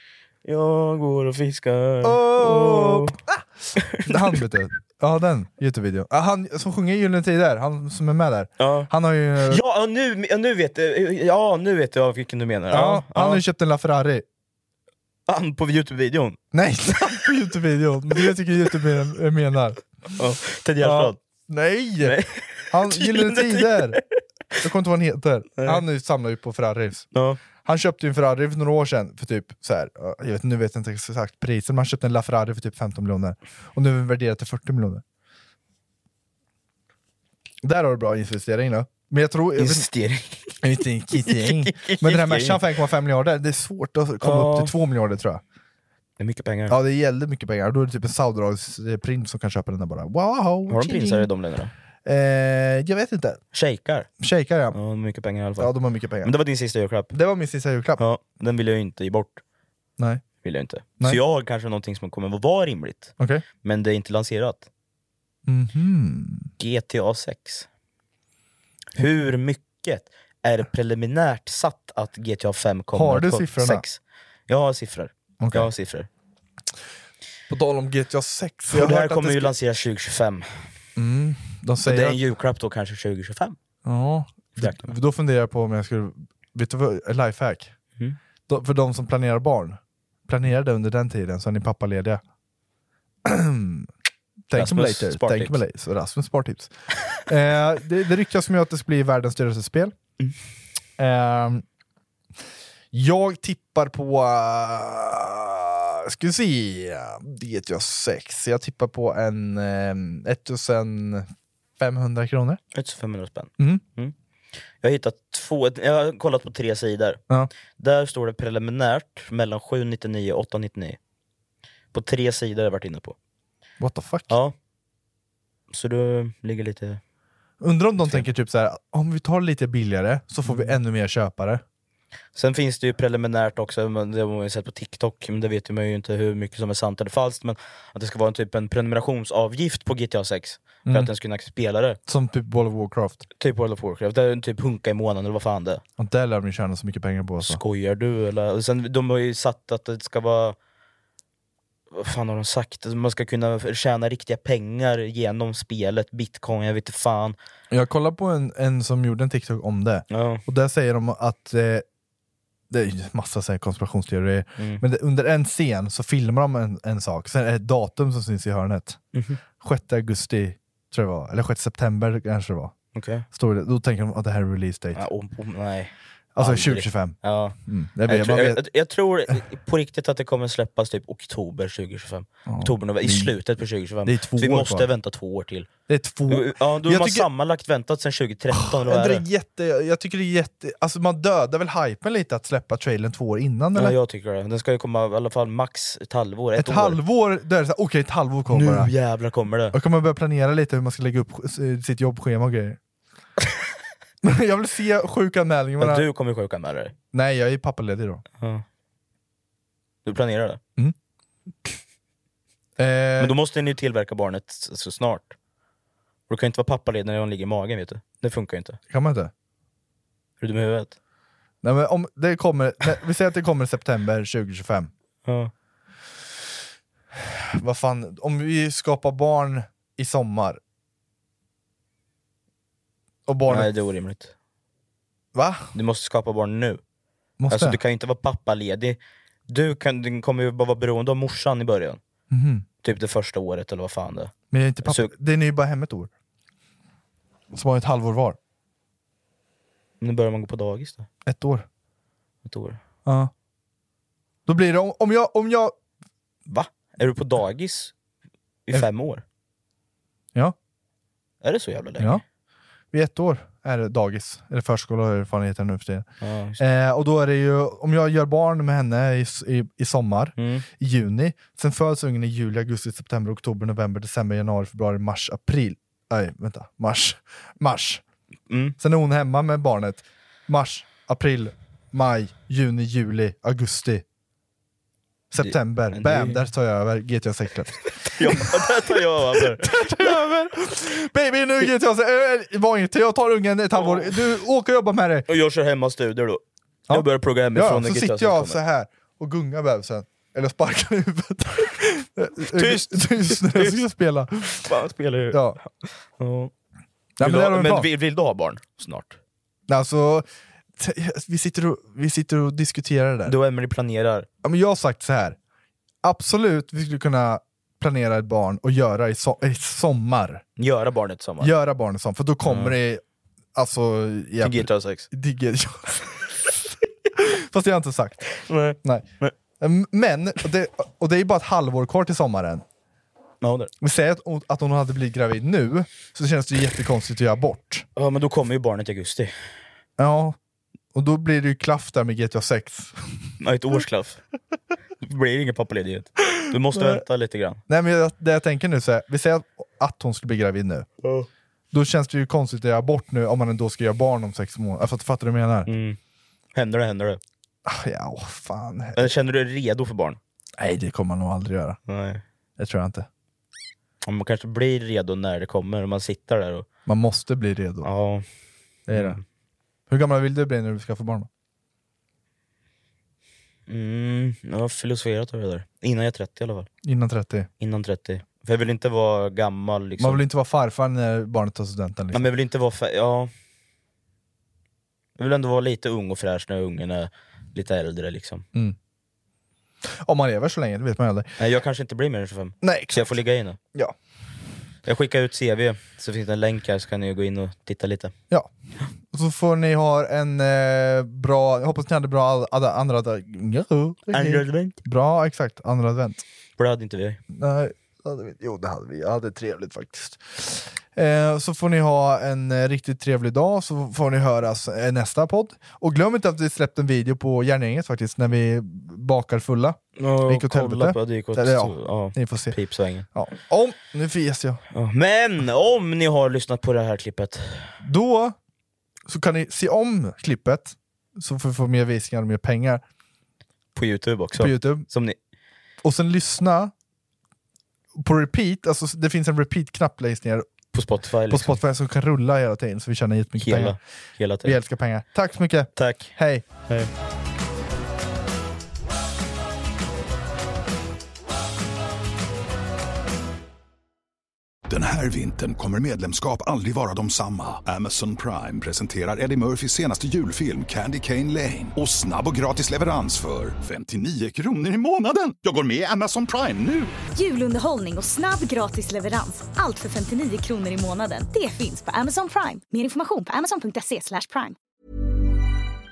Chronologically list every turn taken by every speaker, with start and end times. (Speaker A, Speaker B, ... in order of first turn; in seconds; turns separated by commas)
Speaker A: 0.5-3.2, Speaker B: 2.0-9.6, Speaker A: 3.8-4.4, Speaker A: 8.6-8.9, Speaker A: 9.4-13.4, Speaker B: 12.7-14.2, Speaker A: 15.3-16.4, Speaker B: 16.5-19.8, Speaker A: 20.2-21.2, Speaker B: 20.8-24.0, Speaker A: 22.0-24.2, Speaker B: 24.6-27.1, Speaker A: 25.6-25.8, Speaker A: 27.1-27.4, Speaker B: 27.6-35.0, Speaker B: 37.6-39.9, Speaker A: 39.6-42.7, Speaker B: 40.6-45.4, Speaker A: 44.2-44.7, Speaker A: 46.2-46.8, Speaker B: 46.7-51.3, Speaker A: 50.7-51.7, Speaker B: 52.0-53.4, Speaker A: 53.5-54.1, Speaker B: 54.2-54.8, Speaker A: 54.7-57.1, Speaker B: 55.6-56.3, Speaker B: 57.1-58.0, Speaker A: 58.0-59.4, Speaker B: 60.0-60.2, Speaker A: 60.4-64.7, Speaker B: 63.2-63.4, Speaker B: 65.5-66.5, Speaker A: 66.6-67.7, Speaker A: 69.0-76.1, Speaker B: 72.9-73.8, Speaker B: 75.4-75.7, Speaker B: 77.5-79.5, Speaker A: 78.7-80.7, Speaker B: 81.0-82.2, Speaker A: 81.8-83.6, Speaker B: 83.8-87.7, Speaker A: 84.5-85.0, Speaker B: 88.5-92.2, Speaker B: 93.2-93.9, Speaker B: 94.5-100.0, Speaker A: 94.5-95.6, Speaker B: 101.0-101.6, Speaker B: 102.9-111.3, Speaker B: 111.8-112.6, Speaker A: 112.7-114.1, Speaker A: 114.8-117.2, Speaker A: 117.8-121.0, Speaker A: 121.9-123.2, Speaker B: 123.8-124.3, Speaker A: 124.3-124.5, Speaker A: 125.7-127.0, Speaker B: 127.6-131.6, Speaker A: 128.0-128.3, Speaker A: 130.4-130.8, Speaker A: 132.3-142.0, Speaker B: 140.9-141.1, Speaker B: 142.1-143.3, Speaker A: 143.4-145.8, Speaker B: 146.0-147.6, Speaker A: 147.4-150.6, Speaker A: 151.9-157.4, Speaker B: 157.7-161.8, Speaker A: 160.1-160.4, Speaker B: 162.7-169.0, Speaker A: 164.6-164.8, Speaker A: 169.1-169.4, Speaker B: 169.6-172.7, Speaker A: 172.9-173.3, Speaker B: 173.3-175.0, Speaker A: 174.9-185.7, Speaker B: 176.3-178.6, Speaker B: 182.5-183.4, Speaker B: 184.1-184.9, Speaker B: 185.9-187.3, Speaker A: 186.3-189.2, Speaker B: 188.6-194.0, Speaker A: 193.8-197.0, Speaker B: 196.6-198.9, Speaker A: 198.5-199.8, Speaker B: 199.7-202.8, Speaker B: 204.2-206.1, Speaker A: 205.8-206.9, Speaker B: 207.1-208.2, Speaker A: 208.4-208.6, Speaker A: 210.1-210.6, Speaker B: 212.8-213.3, Speaker A: 213.2-215.3, Speaker A: 216.3-218.8, Speaker B: 218.9-219.3, Speaker A: 220.4-221.0, Speaker B: 221.6-224.9, Speaker A: 225.2-225.5, Speaker B: 227.2-230.6, Speaker B: 233.3-233.7, Speaker A: 233.5-234.3, Speaker B: 235.3-235.7, Speaker A: 235.7-236.8, Speaker B: 237.4-237.8, Speaker A: 237.5-242.0, Speaker B: 242.3-242.7, Speaker A: 242.8-245.1, Speaker B: 244.5-246.1, Speaker B: 247.5-248.4, Speaker A: 250.0-251.1, Speaker B: 251.2-251.7, Speaker A: 252.4-252.8, Speaker B: 253.1-253.3, Speaker B: 254.5-255.7, Speaker A: 256.5-257.9, Speaker A: 258.7-259.2, Speaker A: 261.4-262.2, Speaker B: 262.9-278.0, Speaker A: 266.2-266.6, Speaker A: 270.4-270.7, Speaker A: 278.5-278.8, Speaker B: 278.8-284.0, Speaker B: 285.3-288.8, Speaker A: 285.4-286.4, Speaker A: 288.0-290.0, Speaker B: 289.3-295.3, Speaker A: 293.8-294.3, Speaker A: 295.3-298.6, Speaker B: 296.9-304.7, Speaker A: 302.5-303.8, Speaker A: 304.6-306.5, Speaker B: 305.3-305.6, Speaker B: 307.2-307.9, Speaker A: 307.2-309.2, Speaker B: 309.7-313.4, Speaker A: 313.3-314.3, Speaker B: 314.4-315.4, Speaker B: 316.0-320.4, Speaker A: 320.6-321.5, Speaker B: 321.4-323.0, Speaker A: 322.5-322.8, Speaker B: 323.6-326.6, Speaker A: 324.4-325.1, Speaker B: 327.1-328.3, Speaker A: 328.4-329.3, Speaker B: 328.8-329.1, Speaker B: 329.6-332.6, Speaker A: 333.4-333.7, Speaker B: 333.8-337.9, Speaker A: 338.0-339.3, Speaker B: 340.0-340.4, Speaker B: 340.9-343.2, Speaker A: 343.4-344.2, Speaker A: 345.0-347.6, Speaker B: 346.7-347.0, Speaker B: 347.7-350.9, Speaker A: 351.0-351.3, Speaker B: 351.7-355.7, Speaker A: 355.7-356.0, Speaker A: 356.5-357.2, Speaker B: 357.7-359.1, Speaker A: 359.0-360.2, Speaker B: 360.6-361.8, Speaker A: 361.9-362.2, Speaker B: 362.6-363.1, Speaker A: 364.1-366.7, Speaker B: 366.9-367.9, Speaker A: 367.8-368.2, Speaker B: 368.9-369.2, Speaker A: 368.9-369.2, Speaker B: 369.9-371.3, Speaker A: 373.7-376.7, Speaker B: 376.8-377.5, Speaker A: 377.6-380.2, Speaker B: 380.0-382.3, Speaker A: 382.1-383.3, Speaker A: 385.2-388.5, Speaker B: 389.9-391.3, Speaker A: 391.4-393.6, Speaker B: 392.6-393.9, Speaker A: 394.9-398.1, Speaker B: 399.1-406.2, Speaker A: 404.1-404.8, Speaker A: 406.6-407.2, Speaker B: 407.3-424.6, Speaker A: 420.0-423.1, Speaker A: 424.7-427.7, Speaker B: 427.8-428.4, Speaker B: 429.1-432.8, Speaker A: 433.8-435.2, Speaker B: 434.4-434.9, Speaker B: 435.8-436.7, Speaker B: 438.0-440.5, Speaker A: 440.7-441.6, Speaker B: 441.3-443.8, Speaker A: 443.4-444.6, Speaker B: 444.4-446.4, Speaker A: 445.8-446.1, Speaker C: 454.7-466.9, Speaker D: 467.1-474.6